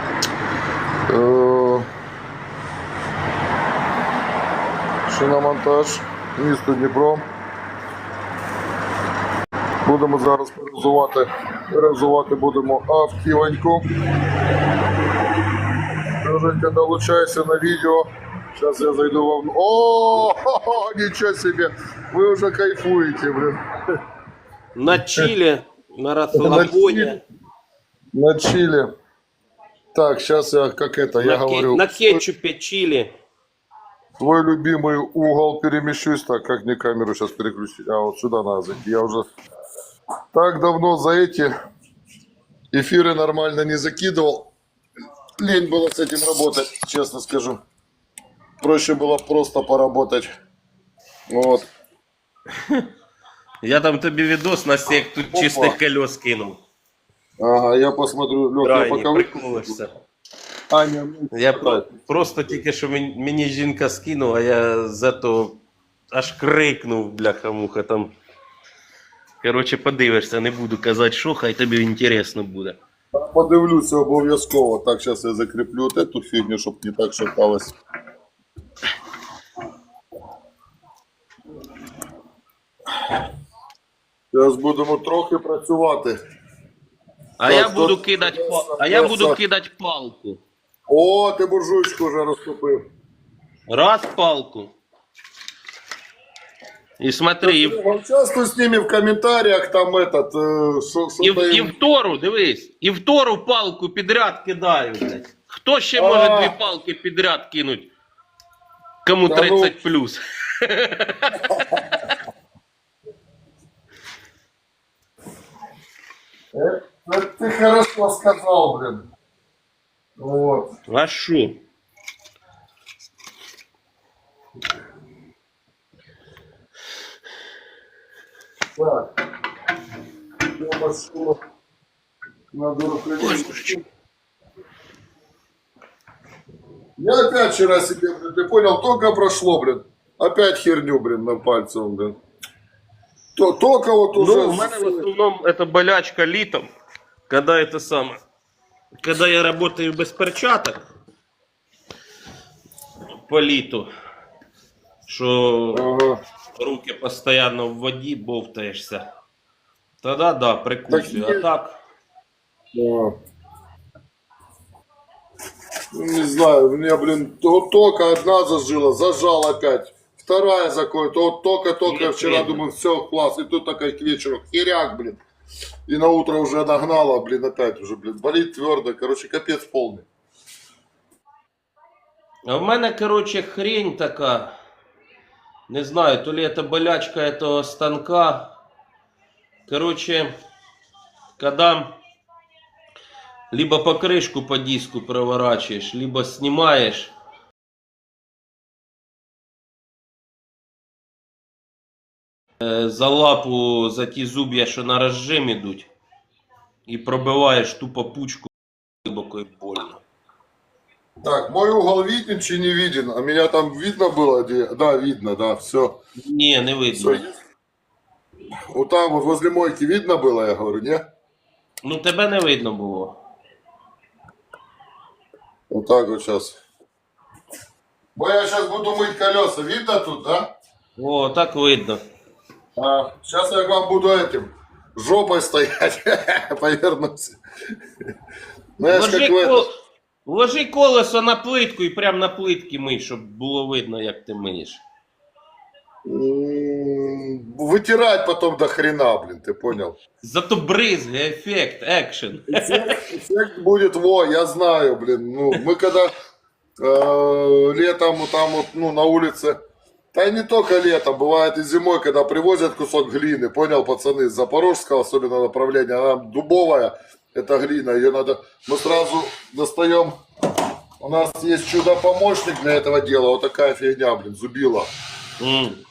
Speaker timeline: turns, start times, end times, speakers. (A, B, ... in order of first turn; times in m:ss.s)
0:01.1-0:01.9 A
0:05.0-0:07.3 A
0:09.8-0:13.8 A
0:16.2-0:23.6 A
0:24.7-0:27.2 B
0:26.3-0:27.2 A
0:28.1-0:28.9 A
0:29.9-0:32.2 A
0:31.2-0:33.1 B
0:34.2-0:39.3 A
0:40.3-0:41.5 A
0:42.7-0:44.5 A
0:45.4-0:47.6 A
0:48.6-0:50.3 A
0:51.3-0:51.7 A
0:52.5-0:52.9 B
0:53.6-0:56.6 B
0:55.3-0:55.8 A
0:57.4-0:59.8 A
0:58.6-1:00.0 B
1:00.7-1:01.9 A
1:01.3-1:08.1 B
1:09.4-1:12.8 B
1:13.1-1:17.8 A
1:24.3-1:26.2 A
1:27.4-1:30.4 B
1:27.4-1:29.4 A
1:30.9-1:32.9 A
1:33.7-1:34.7 B
1:37.0-1:37.8 B
1:37.4-1:41.7 A
1:41.2-1:47.9 B
1:45.9-1:46.6 A
1:49.0-1:51.6 B
1:49.2-1:49.7 A
1:51.5-1:51.8 A
1:56.5-1:59.1 A
2:00.2-2:00.7 A
2:00.9-2:01.6 B
2:08.7-2:09.1 A
2:10.5-2:11.4 A
2:12.5-2:13.8 A
2:17.0-2:22.2 A
2:23.3-2:25.1 A
2:24.1-2:26.7 B
2:27.3-2:28.2 B
2:29.0-2:30.9 B
2:33.2-2:33.9 B
2:35.1-2:35.9 B
2:35.7-2:36.2 A
2:36.6-2:39.1 B
2:40.0-2:41.8 B
2:40.9-2:41.5 A
2:42.7-2:43.2 A
2:45.9-2:55.2 A
2:51.8-2:52.6 B
2:55.9-3:00.0 A
3:02.4-3:04.5 B
3:05.7-3:08.5 B
3:09.7-3:10.3 B
3:11.4-3:11.9 B
3:13.5-3:17.1 B
3:22.6-3:25.9 B
3:26.9-3:28.5 B
3:29.0-3:30.0 B
3:31.2-3:36.0 A
3:36.2-3:37.2 B
3:36.9-3:37.3 A
3:38.7-3:41.0 A
3:41.8-3:43.2 B
3:45.7-3:46.6 A
3:48.1-3:50.5 A
3:51.0-3:52.0 B
3:52.8-3:57.7 A
3:58.8-3:59.7 A
3:58.9-3:59.7 B
4:00.2-4:04.8 B
4:06.0-4:10.0 A
4:10.2-4:13.0 B
4:12.5-4:16.1 A
4:16.8-4:19.6 A
4:20.1-4:30.2 A
4:31.0-4:34.9 A
4:35.4-4:35.8 B